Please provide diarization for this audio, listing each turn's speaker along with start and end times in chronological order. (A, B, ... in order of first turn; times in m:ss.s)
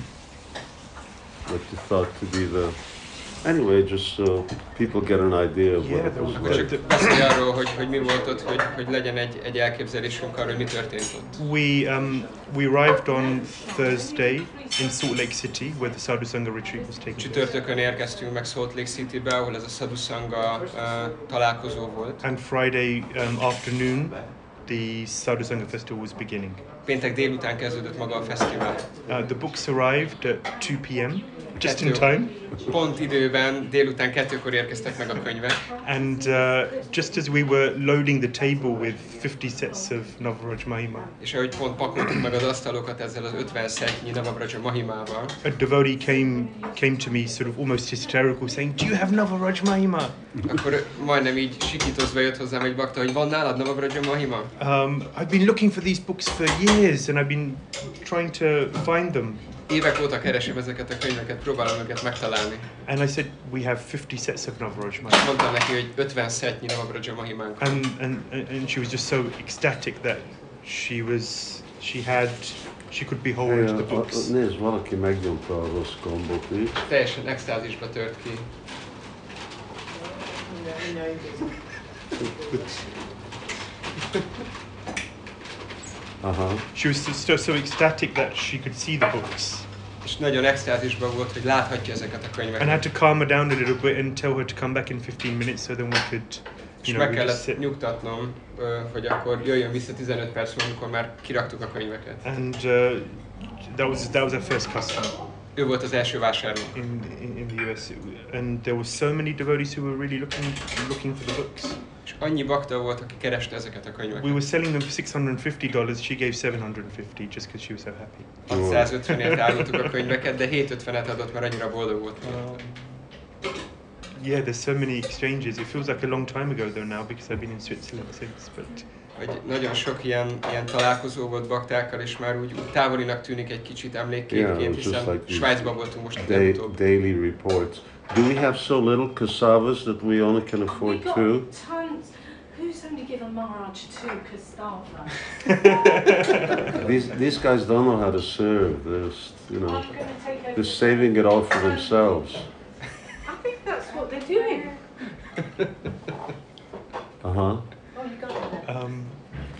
0:01.4-0:06.8 A
0:05.8-0:07.4 B
0:06.4-0:11.4 C
0:11.4-0:17.4 B
0:13.0-0:15.1 D
0:16.7-0:17.7 D
0:17.2-0:22.2 C
0:22.2-0:26.6 B
0:26.8-0:29.0 C
0:29.0-0:32.5 B
0:31.5-0:32.6 D
0:31.6-0:35.7 C
0:35.6-0:37.3 D
0:35.8-0:41.2 B
0:41.2-0:45.4 C
0:45.4-0:50.4 B
0:46.0-0:47.4 D
0:50.4-0:54.5 C
0:54.6-0:59.5 B
0:59.7-1:02.7 C
1:02.8-1:05.3 B
1:05.1-1:07.8 C
1:07.6-1:14.3 B
1:13.4-1:16.8 A
1:16.8-1:18.5 C
1:22.5-1:22.7 B
1:26.2-1:26.6 A
1:26.7-1:29.7 B
1:30.0-1:32.8 C
1:32.6-1:37.7 B
1:36.8-1:42.2 C
1:42.2-1:45.3 B
1:45.5-1:46.8 C
1:46.7-1:51.8 B
1:52.0-1:54.4 C
1:54.1-1:59.6 B
1:58.4-2:02.6 C
1:58.5-1:58.9 A
2:02.2-2:03.1 B
2:04.1-2:08.9 B
2:09.1-2:16.8 C
2:14.3-2:21.5 A
2:20.7-2:25.3 D
2:25.5-2:26.4 B
2:26.7-2:32.5 A
2:29.6-2:32.1 D
2:33.2-2:34.8 D
2:37.2-2:37.6 A
2:37.9-2:38.6 D
2:38.6-2:39.2 B